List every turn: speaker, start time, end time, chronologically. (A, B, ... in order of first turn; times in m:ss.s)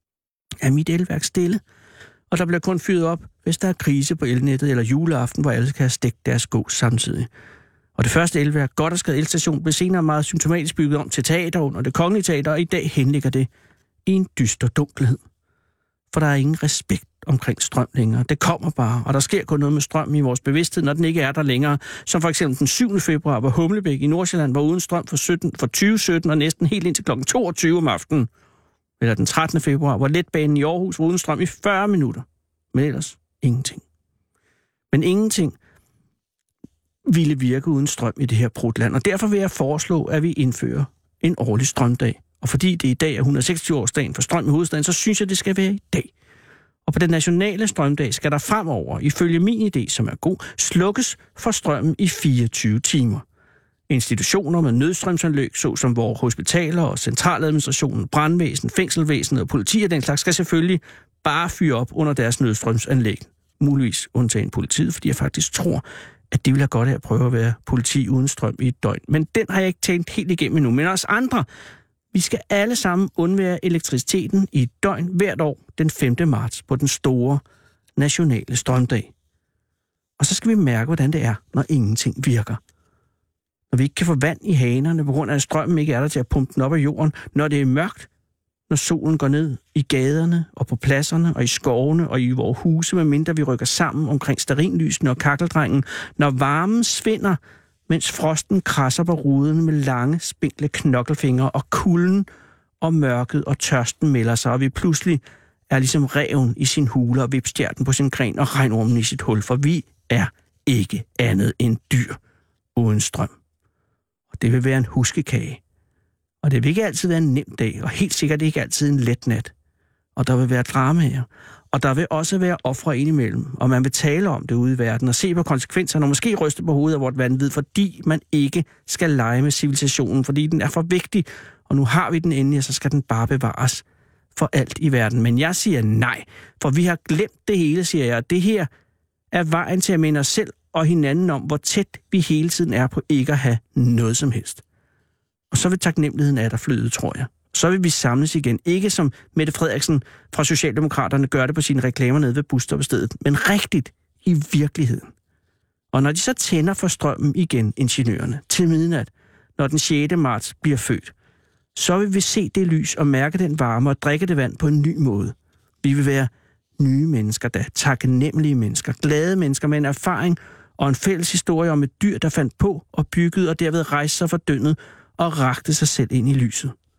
0:00.6-0:01.6 A
0:02.3-0:07.3 A
0:08.0-0:13.5 A
0:14.1-0:15.2 A
0:16.1-0:28.3 A
0:29.0-0:33.8 A
0:34.9-0:35.6 A
0:37.1-0:46.1 A
0:46.9-0:53.2 A
0:53.9-1:11.5 A
1:12.1-1:17.4 A
1:18.0-1:19.1 A
1:20.2-1:22.6 A
1:23.7-1:28.1 A
1:28.7-1:42.3 A
1:42.8-1:52.2 A
1:52.8-1:53.3 A
1:54.4-1:55.6 A
1:56.4-1:59.5 A
2:00.2-2:13.8 A
2:14.4-2:18.7 A
2:19.3-2:24.6 A
2:25.5-2:35.1 A
2:35.9-2:41.1 A
2:41.8-2:56.7 A